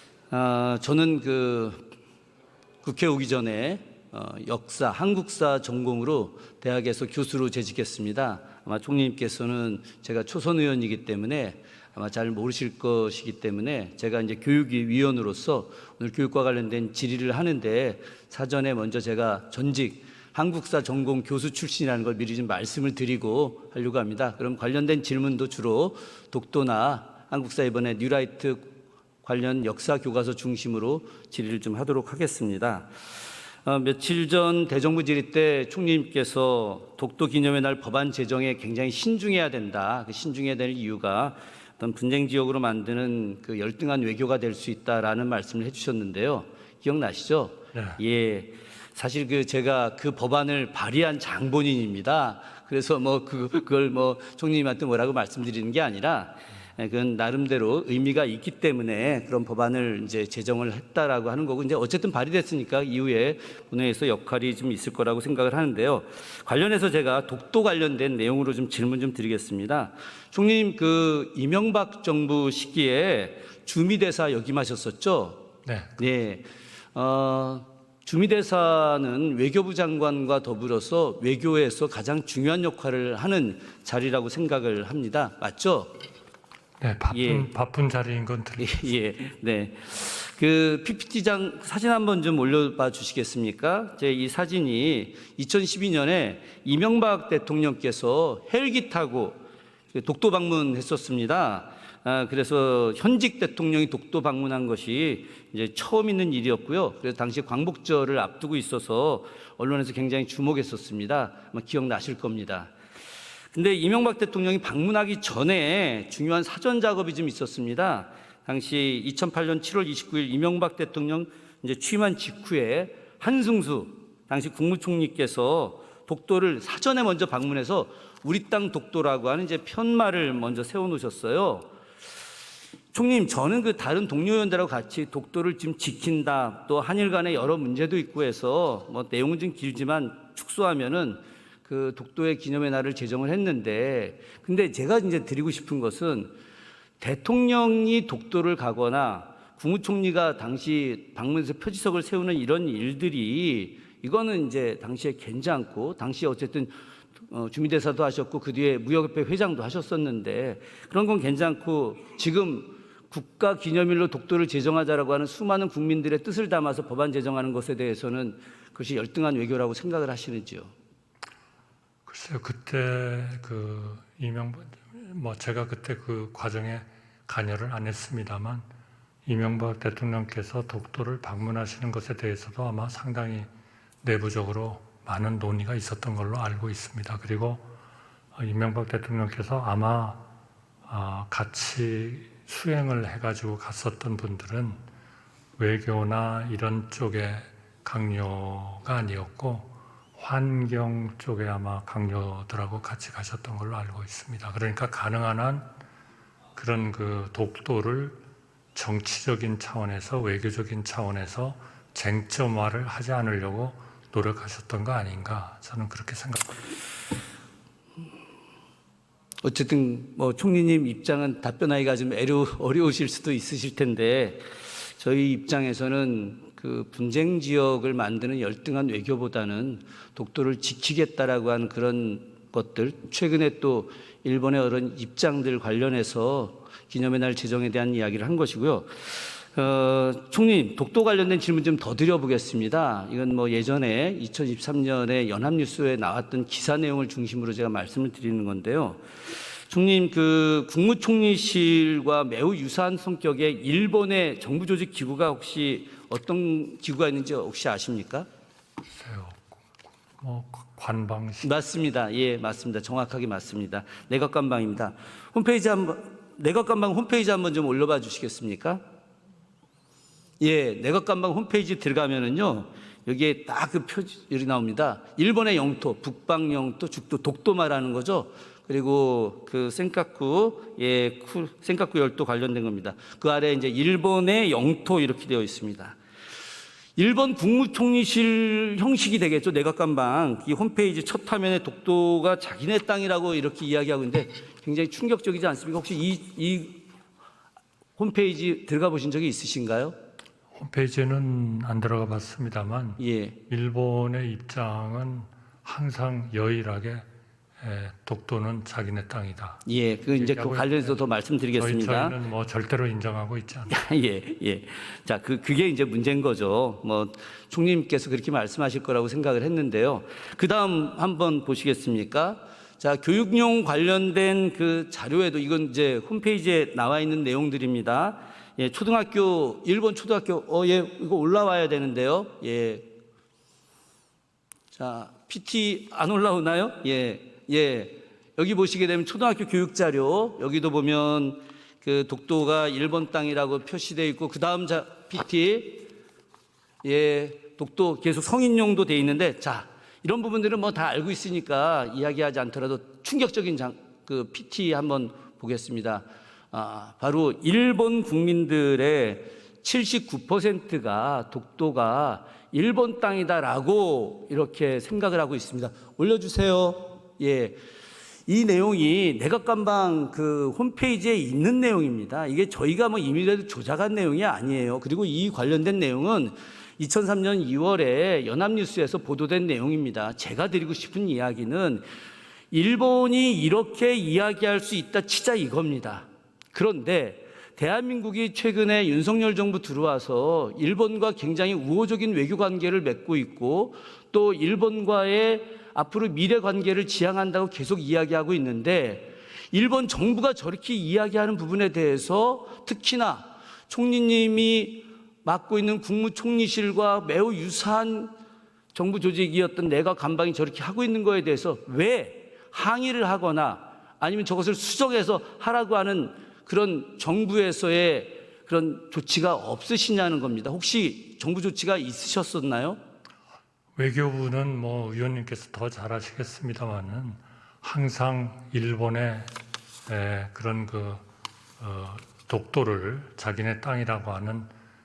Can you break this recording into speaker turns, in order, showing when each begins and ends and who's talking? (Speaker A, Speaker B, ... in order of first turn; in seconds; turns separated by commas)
Speaker A: 0.3-1.8, Speaker A: 2.8-28.7, Speaker A: 29.2-32.9, Speaker A: 33.6-75.5, Speaker B: 47.7-48.0, Speaker B: 75.7-76.0, Speaker A: 76.0-85.9, Speaker B: 86.8-88.9, Speaker A: 87.1-87.5, Speaker A: 88.6-99.4, Speaker A: 99.9-112.7, Speaker A: 113.5-131.7, Speaker A: 132.9-146.3, Speaker A: 147.0-156.7, Speaker A: 157.3-170.7, Speaker B: 172.1-178.7, Speaker B: 179.3-183.5, Speaker B: 184.0-187.6, Speaker B: 188.3-190.2, Speaker B: 190.9-194.8, Speaker B: 195.6-205.7, Speaker B: 206.6-208.2, Speaker B: 208.8-216.7, Speaker A: 219.4-224.4, Speaker A: 225.0-249.0, Speaker A: 249.7-258.3, Speaker B: 258.9-259.6, Speaker B: 260.2-261.5, Speaker A: 261.4-268.8, Speaker A: 270.4-286.0, Speaker A: 287.0-296.8, Speaker A: 298.0-299.9, Speaker B: 300.6-307.1, Speaker A: 303.0-303.4, Speaker B: 307.6-309.6, Speaker A: 309.6-312.2, Speaker B: 310.1-311.0, Speaker B: 311.6-313.8, Speaker A: 313.7-332.9, Speaker A: 334.7-345.9, Speaker A: 346.8-367.6, Speaker A: 368.3-381.8, Speaker A: 382.5-408.1, Speaker A: 408.7-422.8, Speaker B: 423.8-429.3, Speaker B: 429.9-431.0, Speaker B: 431.6-434.5